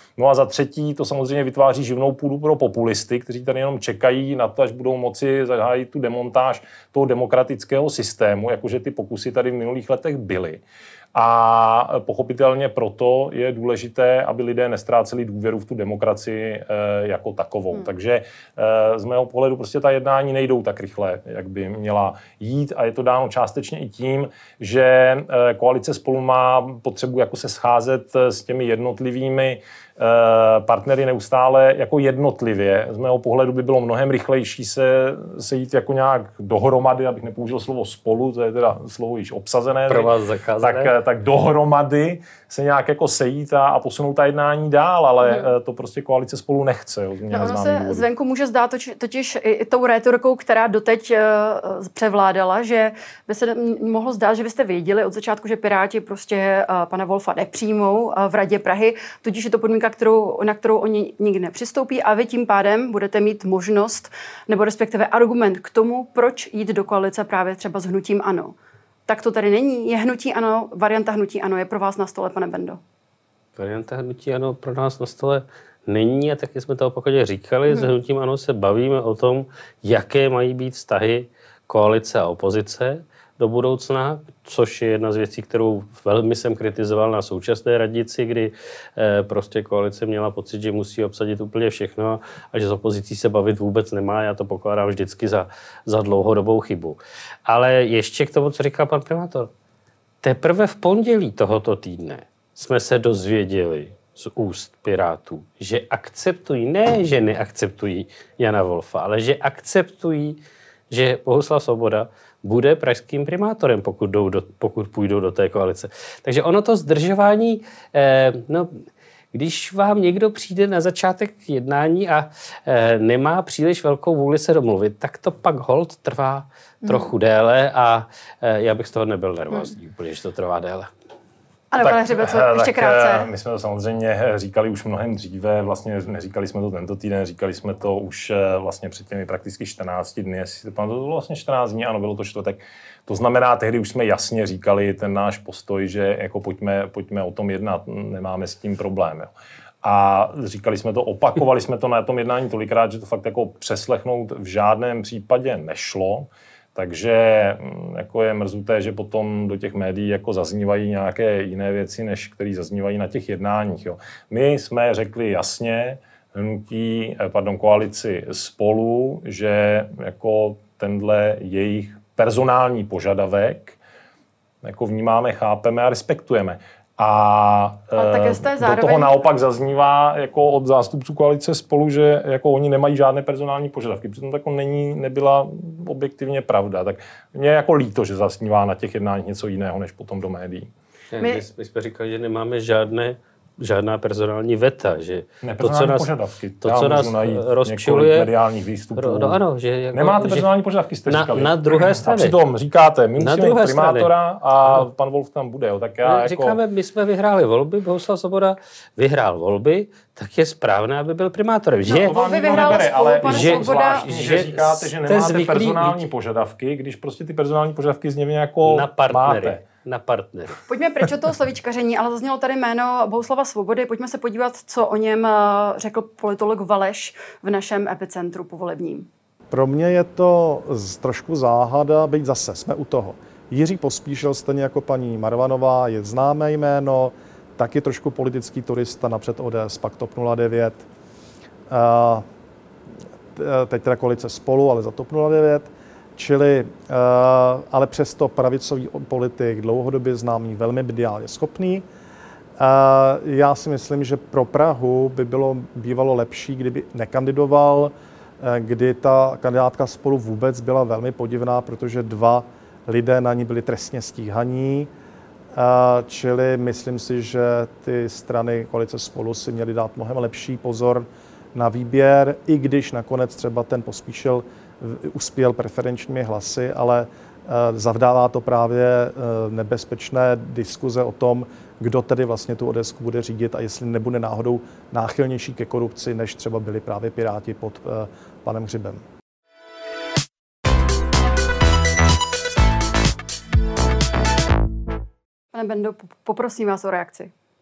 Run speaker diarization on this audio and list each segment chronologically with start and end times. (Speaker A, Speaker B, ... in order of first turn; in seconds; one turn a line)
Speaker A: 0.2-10.6
Speaker A: 11.1-48.0
Speaker B: 39.9-40.9
Speaker C: 47.3-68.5
Speaker C: 69.1-72.8
Speaker B: 73.5-99.5
Speaker B: 100.2-110.4
Speaker B: 110.9-118.8
Speaker B: 119.3-130.9
Speaker C: 126.8-127.1
Speaker C: 131.7-133.3
Speaker A: 131.8-149.3
Speaker A: 149.8-173.8
Speaker A: 174.6-190.7
Speaker C: 177.9-179.2
Speaker B: 191.1-196.1
Speaker C: 191.2-191.4
Speaker A: 195.4-199.4
Speaker B: 196.6-198.3
Speaker B: 198.9-200.5
Speaker A: 199.9-206.6
Speaker B: 201.1-202.4
Speaker B: 203.2-204.1
Speaker B: 206.0-216.0
Speaker C: 211.8-214.1
Speaker A: 211.9-219.6
Speaker B: 218.6-220.6
Speaker C: 220.7-229.1
Speaker D: 229.5-240.8
Speaker D: 241.7-242.2
Speaker D: 243.3-251.8
Speaker D: 252.6-264.9
Speaker D: 265.5-289.0
Speaker C: 295.5-297.3